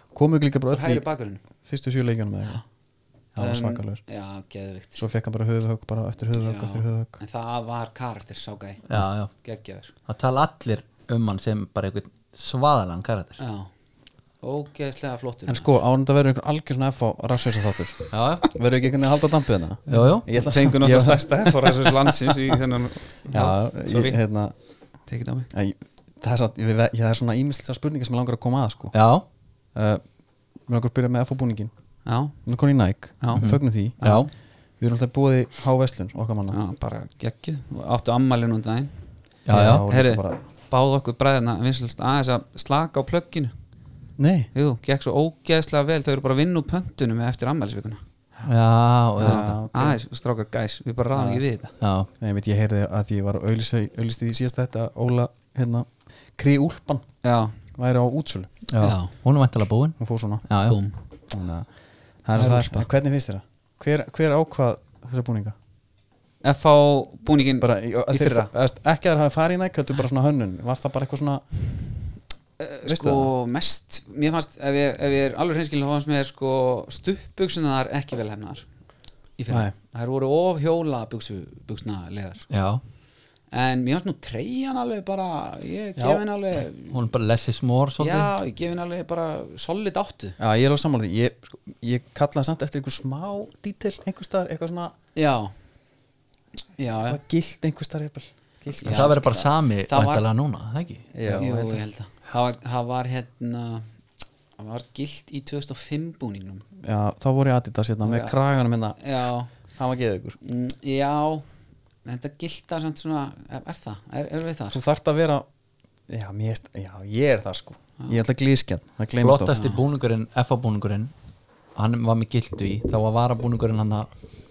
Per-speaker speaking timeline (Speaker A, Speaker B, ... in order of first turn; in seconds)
Speaker A: 0.1-1.1, 1.6-2.6, 3.3-4.0, 5.0-7.2, 15.5-22.3, 23.3-24.5, 25.5-28.9, 29.7-30.1, 30.6-31.7, 32.4-34.2, 34.7-36.6, 39.5-40.4, 44.2-44.5, 49.2-50.0, 51.1-51.4, 52.2-57.1, 57.7-58.5, 60.0-60.4, 61.3-65.5, 67.6-71.5, 72.8-73.3, 86.0-86.2, 90.4-94.9, 97.1-99.1, 101.1-101.8, 106.8-109.0, 109.7-110.4, 114.7-115.5, 116.1-119.5
Speaker B: 0.7-1.4, 3.4-5.0, 6.4-8.9, 9.4-9.9, 13.4-13.7, 14.4-15.7, 19.9-24.2, 25.1-25.5, 32.0-32.5, 33.2-33.4, 36.5-38.9, 39.9-43.5, 44.5-48.0, 49.2-51.7, 57.2-57.5, 58.8-59.1, 60.6-60.9, 66.4-68.5, 72.6-78.7, 79.4-82.5, 83.5-87.0, 88.0-90.4, 95.1-95.5, 96.8-97.2, 98.8-100.2, 101.3-103.8, 104.6-106.6, 108.0-108.3, 109.0-109.5, 110.4-111.5, 112.0-114.8, 119.5-119.8
Speaker C: 8.9-9.3, 10.1-13.4, 18.1-18.5, 19.9-20.3, 28.9-29.2, 33.3-34.3, 39.5-39.8, 48.4-49.6, 51.8-52.1, 58.7-60.8, 82.5-82.8, 86.9-88.3, 98.8-101.1, 119.2-121.1, 121.7-124.1